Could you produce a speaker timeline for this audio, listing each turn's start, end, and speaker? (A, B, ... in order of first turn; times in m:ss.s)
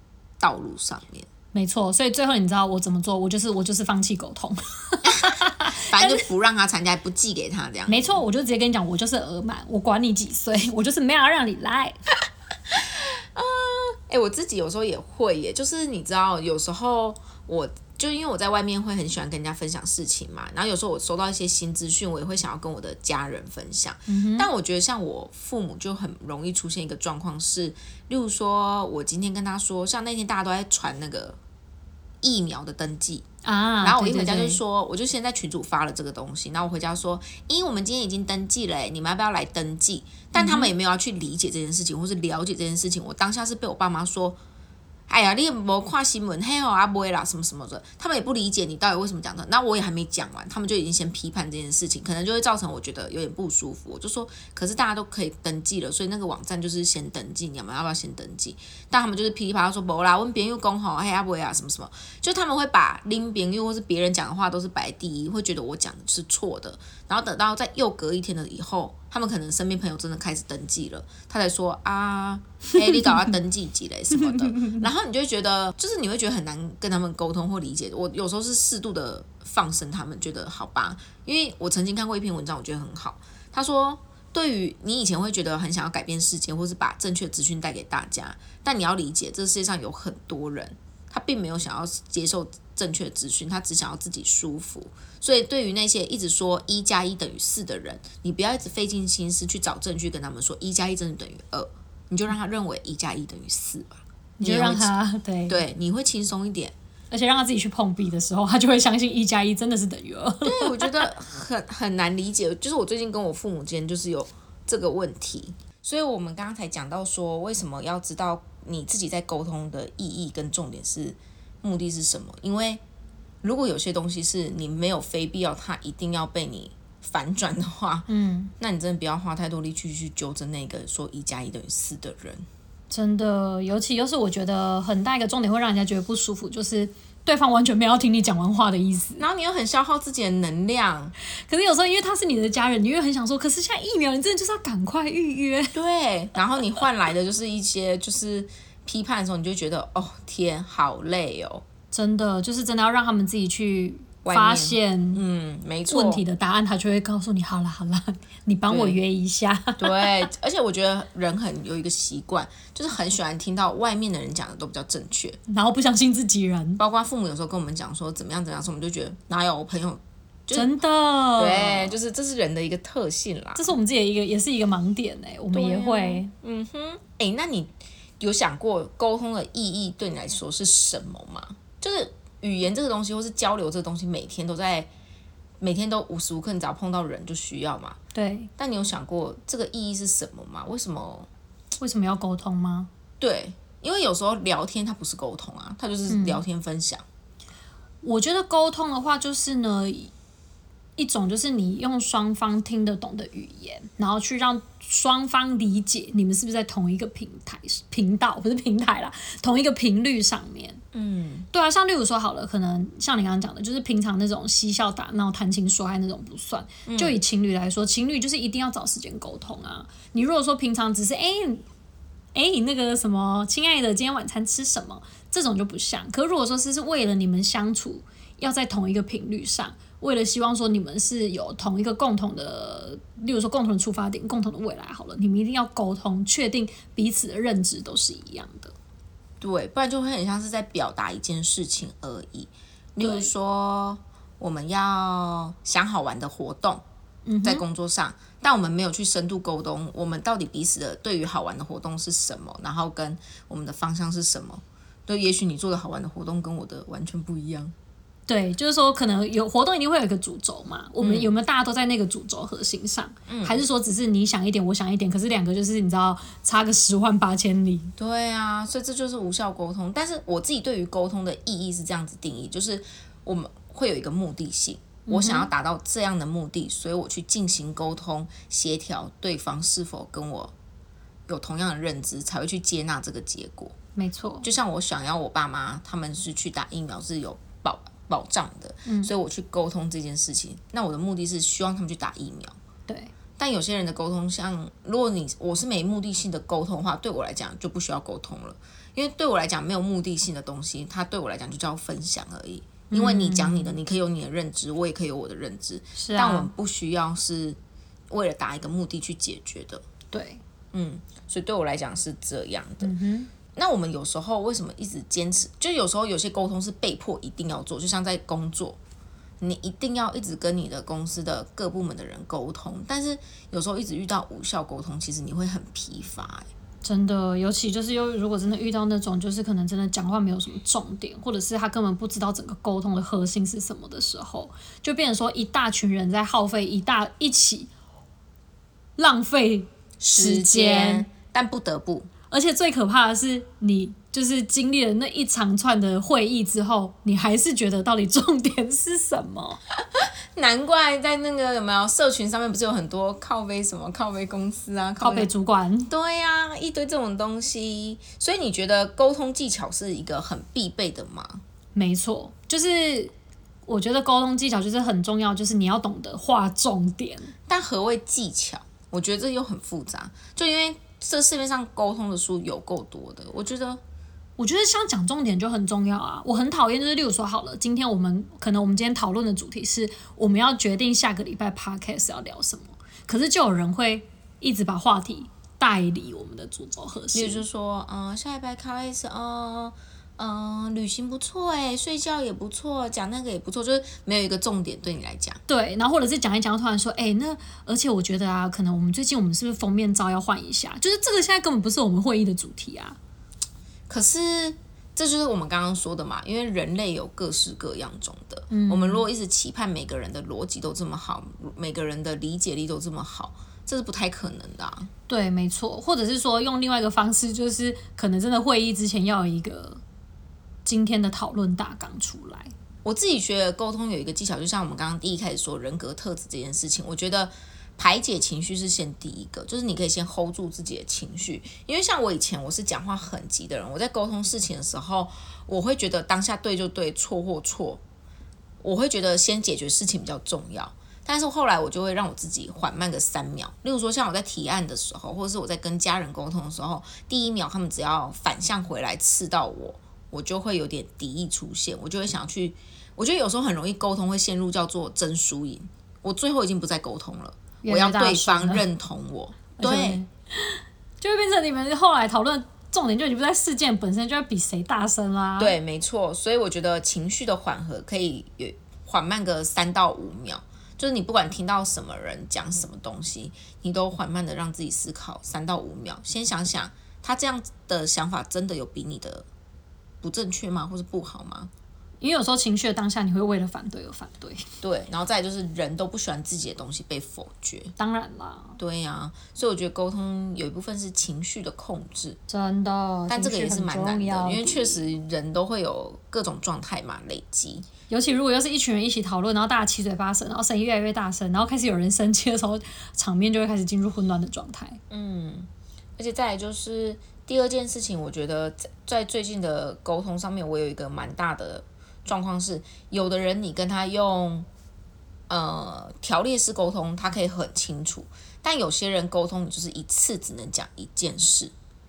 0:00.4-0:01.3 A
0:01.5-0:06.2 B
0:05.1-0:08.2 A
0:07.9-0:12.0 B
0:12.7-0:31.4 A
0:24.1-0:24.5 B
0:32.2-0:33.3 A
0:33.4-0:34.6 B
0:33.8-0:44.4 A
0:40.4-0:40.7 B
0:45.1-1:44.9 A
1:14.4-1:14.8 B
1:44.4-1:45.6 B
1:45.5-1:46.7 A
1:47.1-1:51.1 B
1:50.4-2:02.8 A
2:03.4-2:08.1 A
2:08.1-2:08.5 B
2:08.6-2:12.5 A
2:12.9-2:19.2 B
2:19.2-2:21.2 A
2:21.5-2:25.8 B
2:25.7-2:31.6 A
2:31.9-2:35.2 B
2:34.2-2:36.2 A
2:35.9-2:40.1 B
2:38.7-2:39.0 A
2:39.8-2:45.4 A
2:45.5-2:46.8 B
2:46.8-2:50.8 A
2:50.5-2:52.0 B
2:51.4-2:53.8 A
2:53.6-2:56.3 B
2:55.5-3:04.9 A
3:05.6-3:08.0 A
3:08.2-3:08.5 B
3:08.6-3:11.3 A
3:11.8-3:12.9 B
3:13.2-3:17.0 A
3:16.1-3:16.4 B
3:18.0-3:20.1 B
3:21.0-3:30.8 B
3:30.9-3:31.5 A
3:31.5-3:41.6 B
3:36.9-3:37.2 A
3:42.3-3:58.7 B
3:59.4-4:06.8 A
4:03.0-4:03.3 B
4:07.3-4:07.6 B
4:07.4-4:17.7 A
4:18.3-4:27.9 B
4:21.0-4:21.3 A
4:23.3-4:23.6 A
4:28.0-4:40.5 A
4:35.1-4:35.5 B
4:41.3-4:43.8 A
4:44.0-4:44.5 B
4:44.4-4:52.6 A
4:48.9-4:49.1 B
4:52.9-4:53.1 B
4:53.4-5:07.6 A
5:02.9-5:03.8 B
5:06.0-5:06.5 B
5:08.1-5:09.8 A
5:10.1-5:10.4 B
5:10.7-5:12.9 A
5:12.8-5:13.3 B
5:13.5-5:18.8 A
5:19.4-5:26.5 A
5:26.8-5:37.7 B
5:39.0-5:41.1 B
5:40.0-5:42.1 A
5:42.3-5:49.6 B
5:50.0-5:55.3 A
5:55.0-5:55.9 B
5:55.9-6:01.4 A
6:01.8-6:03.1 B
6:03.7-6:07.3 B
6:07.5-6:13.8 A
6:14.4-6:27.4 B
6:27.1-6:35.4 A
6:35.5-6:43.0 B
6:43.9-6:54.9 A
6:48.5-6:49.0 B
6:55.1-6:59.8 B
7:00.6-7:02.5 B
7:02.8-7:17.8 A
7:18.6-7:40.0 A
7:37.6-7:38.6 B
7:39.6-7:45.6 B
7:45.4-7:59.3 A
8:00.0-8:01.5 A
8:02.0-8:04.5 B
8:04.6-8:07.7 A
8:07.8-8:08.6 B
8:08.6-8:12.2 A
8:12.3-8:14.9 B
8:13.1-8:17.7 A
8:17.9-8:24.8 B
8:24.9-8:34.5 A
8:35.3-8:41.5 A